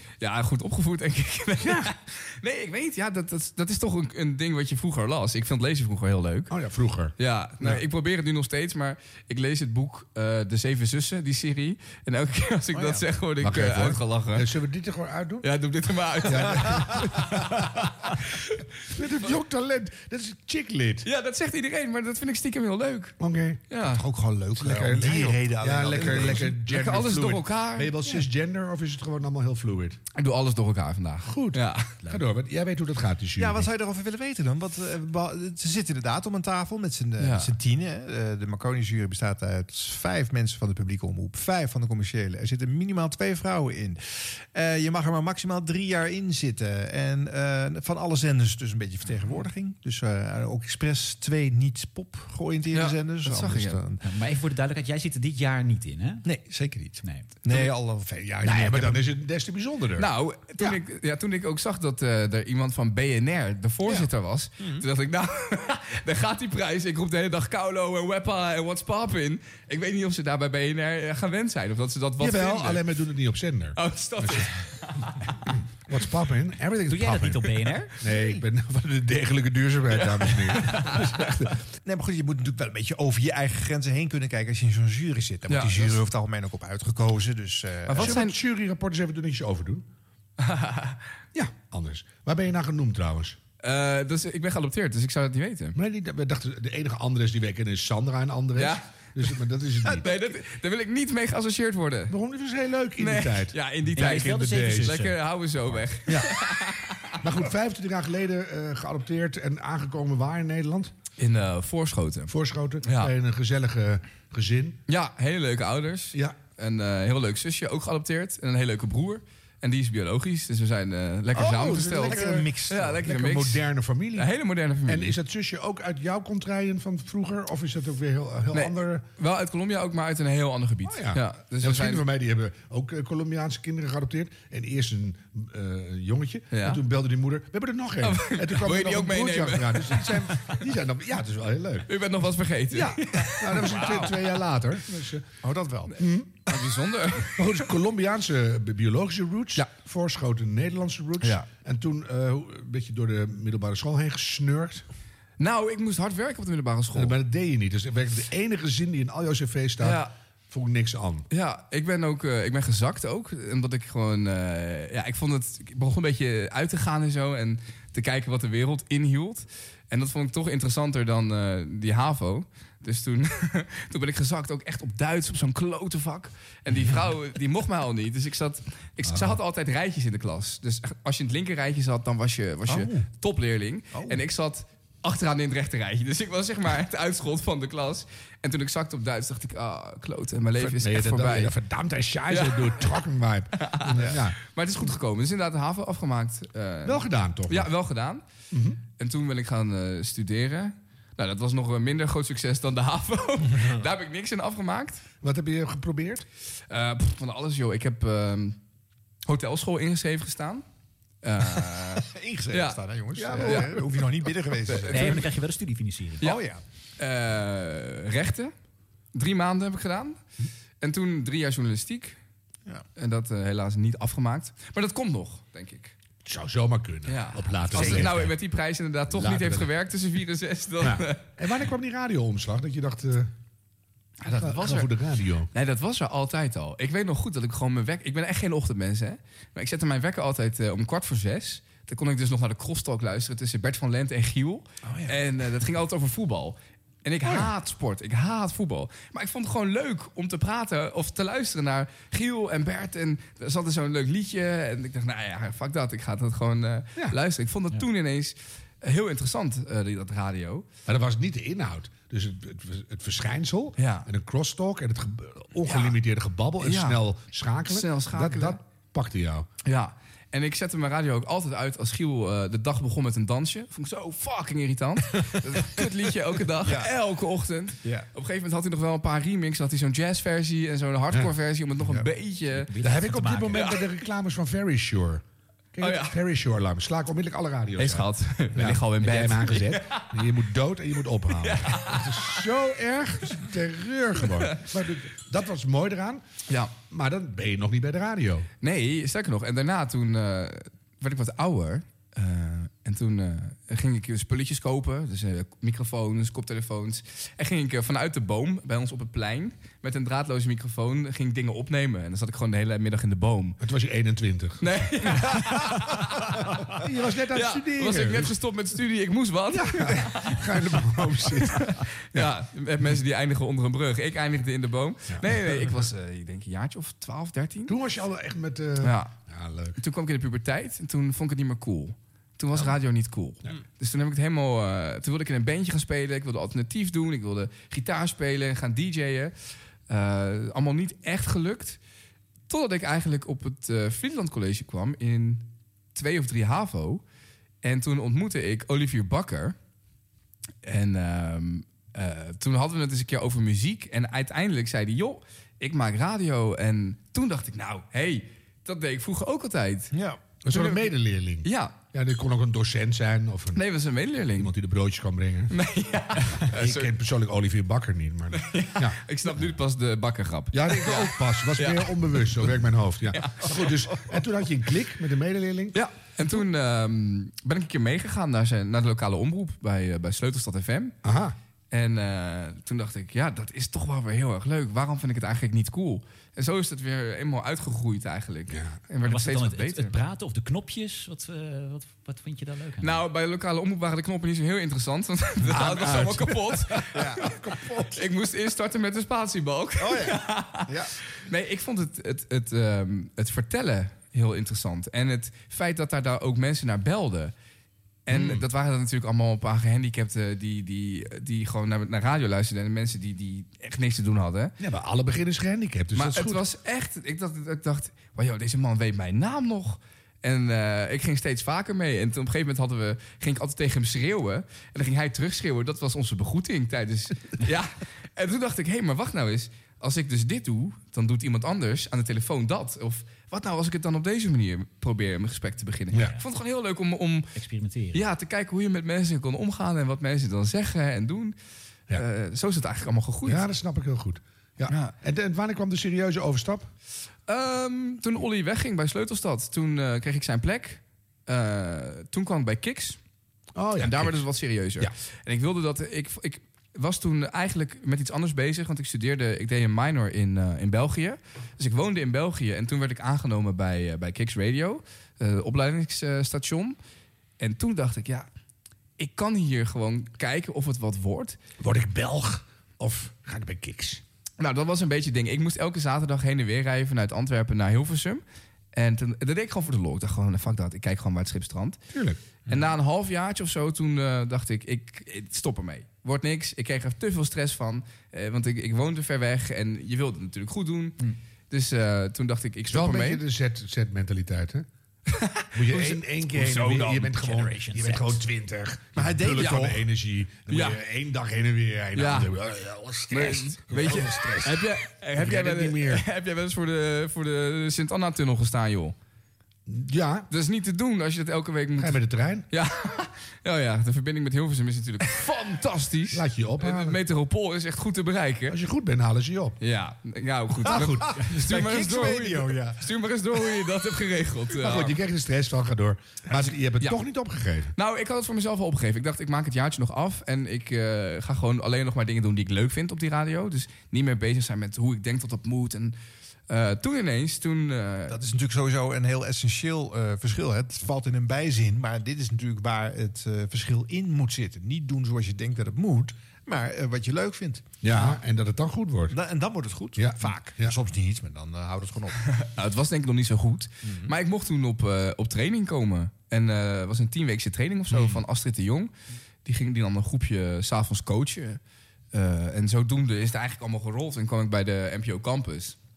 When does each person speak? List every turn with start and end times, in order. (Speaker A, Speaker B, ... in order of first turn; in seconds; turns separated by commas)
Speaker A: 0.2-6.5, Speaker B: 1.6-1.9, Speaker B: 6.5-7.8, Speaker A: 7.2-14.5, Speaker C: 12.7-13.0, Speaker B: 13.4-15.5, Speaker A: 15.4-18.5, Speaker B: 16.2-17.6, Speaker B: 18.9-21.1, Speaker A: 21.0-23.1, Speaker B: 23.2-23.6, Speaker A: 23.7-24.0, Speaker C: 23.8-26.6, Speaker B: 24.5-30.0, Speaker A: 26.5-28.0, Speaker A: 30.1-32.2, Speaker B: 31.2-33.7, Speaker C: 33.4-54.0, Speaker A: 37.2-37.5, Speaker A: 52.7-53.8, Speaker D: 54.0-56.2, Speaker C: 56.2-59.0, Speaker D: 57.0-57.3, Speaker B: 58.4-60.1, Speaker A: 60.0-72.9, Speaker C: 64.6-64.8, Speaker B: 72.2-74.5, Speaker A: 73.8-75.1, Speaker B: 75.9-81.6, Speaker D: 76.9-78.0, Speaker A: 79.9-81.1, Speaker C: 81.8-88.2, Speaker A: 85.5-86.0, Speaker A: 87.8-88.4, Speaker B: 88.0-89.8, Speaker A: 90.4-91.0, Speaker B: 91.3-93.4, Speaker A: 93.6-95.8, Speaker B: 95.7-100.1, Speaker A: 98.5-102.1, Speaker B: 102.1-105.0, Speaker A: 103.0-107.2, Speaker D: 103.9-105.2, Speaker B: 107.2-110.9, Speaker A: 111.2-113.1, Speaker B: 112.3-114.8, Speaker A: 114.9-123.6, Speaker B: 116.1-116.4, Speaker C: 121.3-123.0, Speaker B: 121.4-124.3, Speaker A: 124.2-125.2, Speaker B: 124.8-129.1, Speaker A: 128.5-132.1, Speaker B: 130.8-141.9, Speaker A: 136.5-136.8, Speaker A: 138.0-140.6, Speaker A: 141.9-144.4, Speaker B: 142.7-145.4, Speaker C: 145.4-145.9, Speaker B: 146.0-146.5, Speaker A: 146.4-147.6, Speaker B: 147.2-154.8, Speaker A: 151.2-151.5, Speaker A: 155.4-157.2, Speaker B: 156.9-161.3, Speaker A: 159.8-160.1, Speaker A: 161.3-191.6, Speaker B: 179.0-179.4, Speaker C: 183.9-184.2, Speaker B: 190.6-194.4, Speaker A: 192.3-193.0, Speaker A: 193.6-198.2, Speaker B: 196.8-197.7, Speaker B: 198.5-198.8, Speaker A: 199.0-205.0, Speaker B: 205.2-206.2, Speaker A: 206.7-208.6, Speaker A: 209.3-210.6, Speaker A: 211.2-212.8, Speaker C: 211.6-215.3, Speaker B: 213.1-214.0, Speaker A: 213.3-213.8, Speaker A: 214.6-215.2, Speaker D: 214.9-216.2, Speaker C: 216.2-216.6, Speaker A: 217.0-218.5, Speaker A: 219.1-220.2, Speaker A: 220.8-222.2, Speaker A: 223.0-225.9, Speaker B: 226.2-228.3, Speaker A: 227.1-231.2, Speaker C: 227.7-228.1, Speaker B: 229.1-229.7, Speaker B: 230.8-233.3, Speaker A: 234.2-234.9, Speaker B: 234.3-235.5, Speaker A: 235.5-260.7, Speaker C: 244.9-245.1, Speaker B: 247.2-247.5, Speaker B: 260.9-269.5, Speaker A: 263.8-264.1, Speaker A: 265.6-266.0, Speaker A: 266.6-267.0, Speaker A: 267.6-268.6, Speaker A: 269.6-282.7, Speaker C: 276.6-276.9, Speaker D: 282.6-283.7, Speaker B: 282.8-285.2, Speaker A: 283.5-283.9, Speaker B: 285.7-296.2, Speaker A: 285.8-286.2, Speaker A: 287.8-290.1, Speaker A: 291.3-292.5, Speaker A: 294.2-294.6, Speaker A: 296.5-296.7, Speaker B: 296.9-298.5, Speaker A: 298.6-313.6, Speaker B: 313.6-315.2, Speaker A: 314.6-316.3, Speaker B: 316.7-318.3, Speaker A: 317.3-327.7, Speaker B: 319.5-322.3, Speaker B: 327.7-329.8, Speaker A: 328.8-329.1, Speaker A: 329.8-339.3, Speaker A: 339.9-341.8, Speaker A: 342.5-347.0, Speaker A: 347.6-349.6, Speaker A: 350.6-359.9, Speaker C: 359.9-360.3, Speaker B: 360.4-363.6, Speaker A: 360.5-361.8, Speaker A: 363.5-364.5, Speaker B: 364.3-365.5, Speaker A: 365.5-366.9, Speaker B: 366.4-369.0, Speaker A: 368.3-372.5, Speaker B: 370.5-375.8, Speaker A: 373.1-373.7, Speaker A: 375.7-380.9, Speaker B: 381.0-381.3, Speaker A: 381.7-389.9, Speaker B: 388.5-388.8, Speaker D: 389.0-393.0, Speaker A: 392.8-396.9, Speaker B: 395.5-397.9, Speaker C: 395.6-396.1, Speaker C: 396.9-397.3, Speaker A: 397.9-400.7, Speaker C: 399.8-400.9, Speaker A: 401.2-407.3, Speaker A: 408.1-414.5, Speaker B: 408.1-408.4, Speaker B: 414.6-416.4, Speaker A: 415.9-437.3, Speaker D: 437.3-438.1, Speaker A: 437.9-441.3, Speaker A: 441.9-443.5, Speaker B: 443.2-446.7, Speaker A: 447.3-453.0, Speaker B: 453.5-454.2, Speaker A: 453.8-466.8, Speaker A: 467.4-468.3, Speaker A: 469.0-471.4, Speaker B: 471.6-474.0, Speaker A: 474.4-478.2, Speaker A: 478.7-481.8, Speaker B: 481.9-482.2, Speaker A: 482.5-491.0, Speaker A: 491.5-493.2, Speaker B: 492.7-494.6, Speaker A: 495.1-497.1, Speaker B: 495.5-506.0, Speaker D: 496.4-498.1, Speaker C: 499.0-499.6, Speaker A: 499.4-499.8, Speaker A: 500.5-500.8, Speaker A: 501.9-502.3, Speaker A: 503.1-508.9, Speaker B: 509.7-510.3, Speaker A: 510.3-518.6, Speaker B: 511.8-512.5, Speaker B: 516.1-517.0, Speaker B: 518.5-519.5, Speaker A: 519.6-525.0, Speaker C: 520.6-522.8, Speaker B: 520.6-521.3, Speaker B: 524.5-527.7, Speaker A: 526.3-527.0, Speaker A: 527.8-536.0, Speaker A: 536.5-538.3, Speaker C: 538.1-548.2, Speaker B: 547.8-549.1, Speaker C: 549.1-552.2, Speaker B: 550.0-550.7, Speaker A: 552.3-558.9, Speaker C: 553.8-554.1, Speaker B: 557.9-558.2, Speaker A: 559.4-561.6, Speaker A: 562.1-565.8